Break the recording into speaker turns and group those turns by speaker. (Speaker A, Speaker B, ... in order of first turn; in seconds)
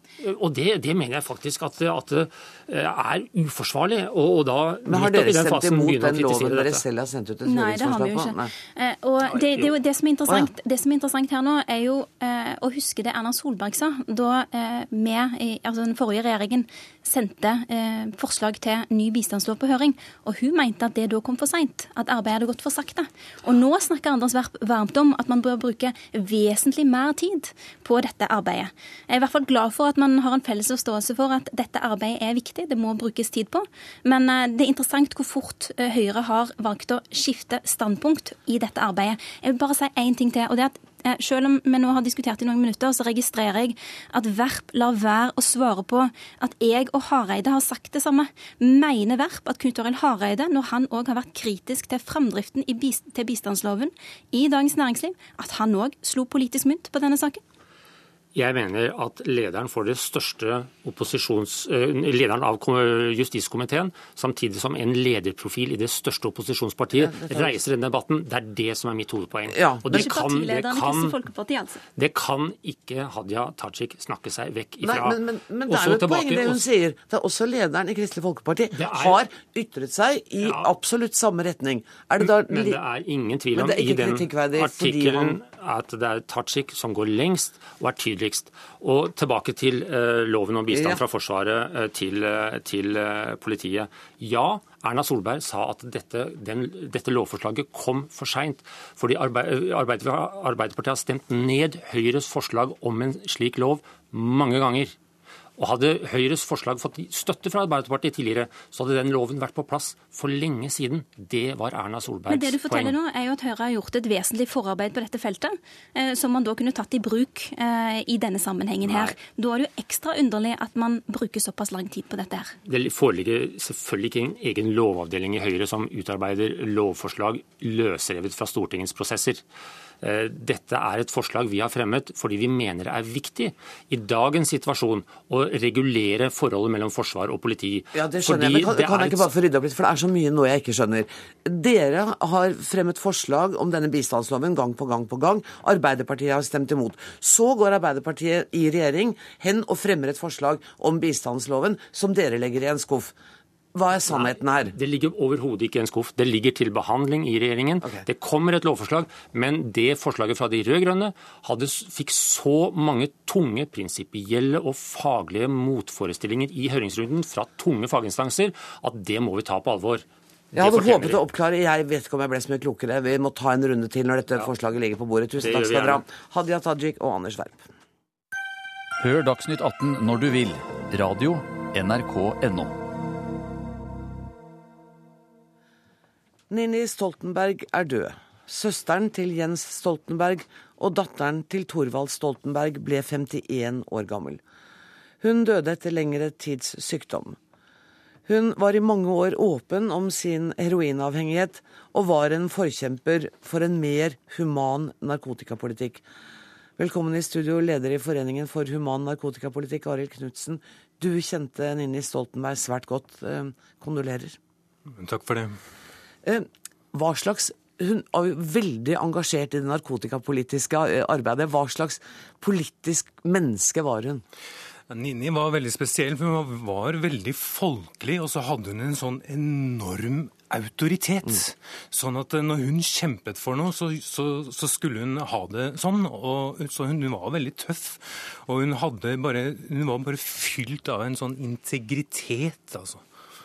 Speaker A: 0.2-6.8, 58.3-71.2, 72.0-76.6, 78.7-79.2, 80.4-80.7, 82.2-104.9, 105.6-112.9, 118.9-119.1, 122.6-129.4, 130.0-139.3, 154.1-171.2, 175.4-176.0
Speaker B: 4.8-8.5, 66.9-67.6, 69.5-70.1, 74.8-82.8, 83.5-85.4, 90.7-91.0, 137.9-153.1, 153.7-154.7, 170.5-177.6, 186.5-194.4, 195.2-197.4, 198.2-206.0, 206.8-214.4, 216.2-224.2
Speaker C: 7.5-57.4, 69.9-71.8, 112.3-122.5
Speaker D: 179.0-182.7
Speaker E: 214.8-215.6, 224.9-243.0